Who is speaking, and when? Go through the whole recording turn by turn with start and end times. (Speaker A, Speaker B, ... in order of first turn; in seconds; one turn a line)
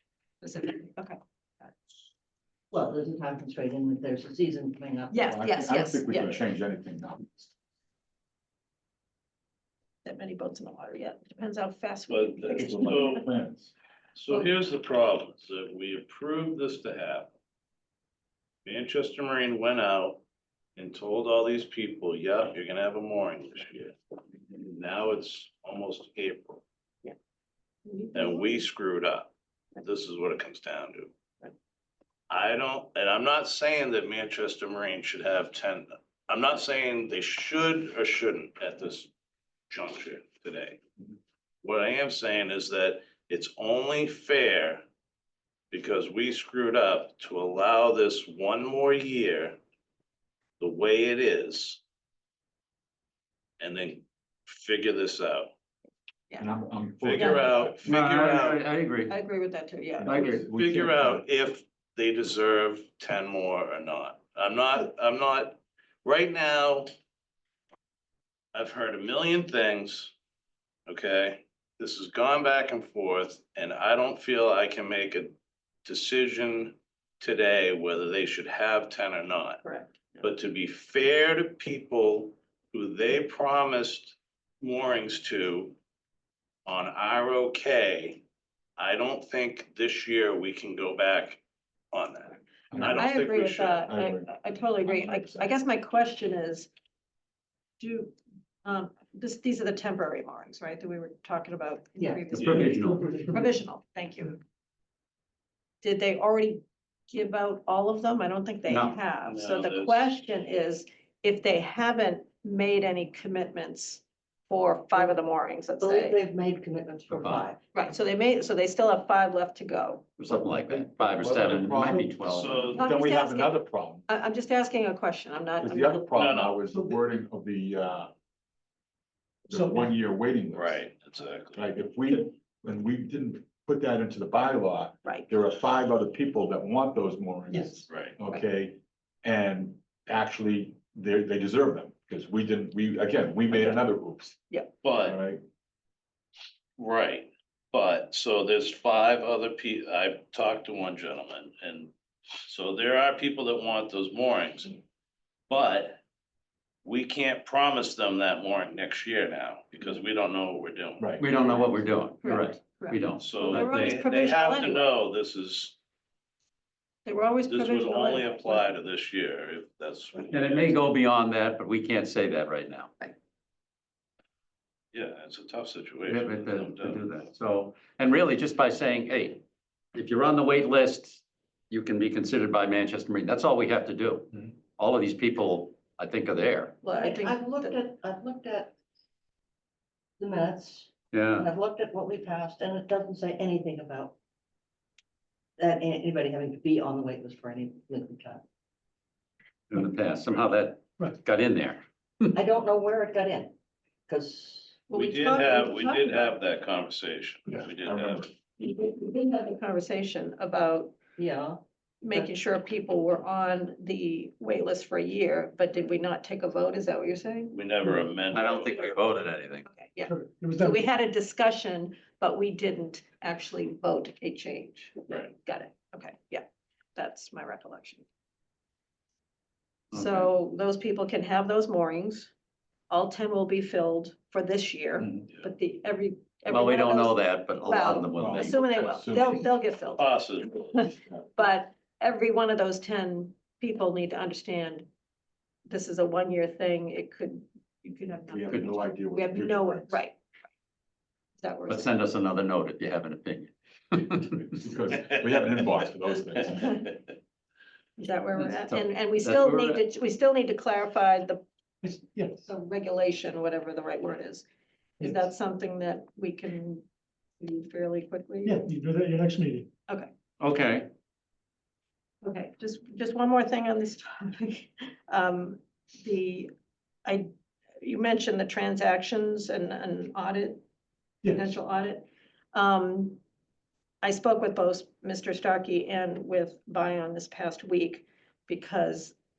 Speaker A: 0.4-1.2
Speaker B: 2.7-5.2
Speaker A: 5.1-6.4
Speaker C: 5.2-7.5
Speaker A: 10.0-13.2
Speaker D: 12.1-13.3
Speaker C: 12.6-13.7
Speaker D: 14.2-17.3
Speaker D: 18.6-20.2
Speaker D: 20.8-24.0
Speaker D: 24.6-26.6
Speaker A: 27.9-28.6
Speaker D: 28.1-31.1
Speaker D: 32.3-39.1
Speaker D: 39.7-40.8
Speaker D: 41.6-44.8
Speaker D: 45.7-49.6
Speaker D: 50.6-51.8
Speaker D: 53.6-55.5
Speaker C: 56.4-57.9
Speaker D: 57.0-58.6
Speaker A: 57.2-57.5
Speaker E: 57.8-59.2
Speaker A: 59.1-60.4
Speaker C: 60.0-61.2
Speaker E: 60.0-60.5
Speaker D: 60.5-66.9
Speaker D: 68.5-70.1
Speaker D: 70.9-79.6
Speaker A: 79.6-80.2
Speaker D: 80.2-85.8
Speaker D: 86.7-88.2
Speaker D: 88.8-93.8
Speaker C: 92.7-93.1
Speaker A: 92.9-96.7
Speaker C: 93.8-95.5
Speaker A: 97.8-104.4
Speaker B: 102.0-102.3
Speaker E: 102.3-103.2
Speaker D: 102.4-102.7
Speaker F: 103.1-103.5
Speaker A: 105.8-116.2
Speaker E: 108.7-109.0
Speaker D: 109.2-110.1
Speaker B: 115.8-117.6
Speaker E: 117.1-117.5
Speaker A: 117.7-120.0
Speaker E: 120.2-122.8
Speaker C: 120.3-124.1
Speaker D: 122.3-122.9
Speaker A: 122.7-126.2
Speaker C: 125.6-128.1
Speaker D: 126.2-126.6
Speaker F: 126.7-127.0
Speaker C: 129.5-130.8
Speaker F: 129.5-129.9
Speaker D: 130.5-131.6
Speaker C: 131.5-144.4
Speaker F: 137.5-137.8
Speaker D: 137.9-138.2
Speaker D: 144.8-145.2
Speaker C: 145.0-145.4
Speaker D: 146.8-151.9
Speaker D: 152.5-154.8
Speaker D: 155.5-156.0
Speaker D: 156.8-161.2
Speaker C: 161.0-161.3
Speaker E: 161.2-164.0
Speaker A: 161.4-161.7
Speaker A: 162.2-164.9
Speaker D: 163.2-165.8
Speaker A: 167.1-168.7
Speaker D: 167.5-170.8
Speaker E: 170.3-172.9
Speaker D: 174.9-177.3
Speaker E: 176.1-179.4
Speaker E: 179.9-186.9
Speaker A: 186.8-187.8
Speaker B: 187.0-188.8
Speaker B: 190.2-194.2
Speaker E: 191.1-191.5
Speaker B: 195.6-198.4
Speaker E: 199.7-202.4
Speaker B: 202.3-203.5
Speaker B: 204.1-204.8
Speaker A: 204.9-206.4
Speaker D: 204.9-208.3
Speaker C: 207.8-208.3
Speaker A: 208.6-211.0
Speaker B: 211.2-212.3
Speaker A: 212.0-217.6
Speaker D: 217.5-218.9
Speaker E: 218.3-219.7
Speaker A: 219.7-228.1
Speaker F: 220.0-220.8
Speaker A: 229.9-232.3
Speaker E: 229.9-230.3
Speaker A: 232.9-244.9
Speaker E: 236.5-238.8
Speaker C: 238.2-239.5
Speaker D: 240.0-240.9
Speaker A: 245.7-250.2
Speaker C: 248.3-250.0
Speaker A: 251.4-251.9
Speaker E: 251.7-254.6
Speaker C: 254.6-256.9
Speaker A: 258.0-261.4
Speaker E: 258.4-259.8
Speaker F: 261.8-262.4
Speaker A: 262.4-264.5
Speaker A: 265.0-266.9
Speaker A: 267.4-268.6
Speaker F: 268.4-269.7
Speaker E: 270.4-270.9
Speaker A: 272.2-276.5
Speaker A: 277.8-280.6
Speaker A: 281.3-283.2
Speaker A: 284.0-289.1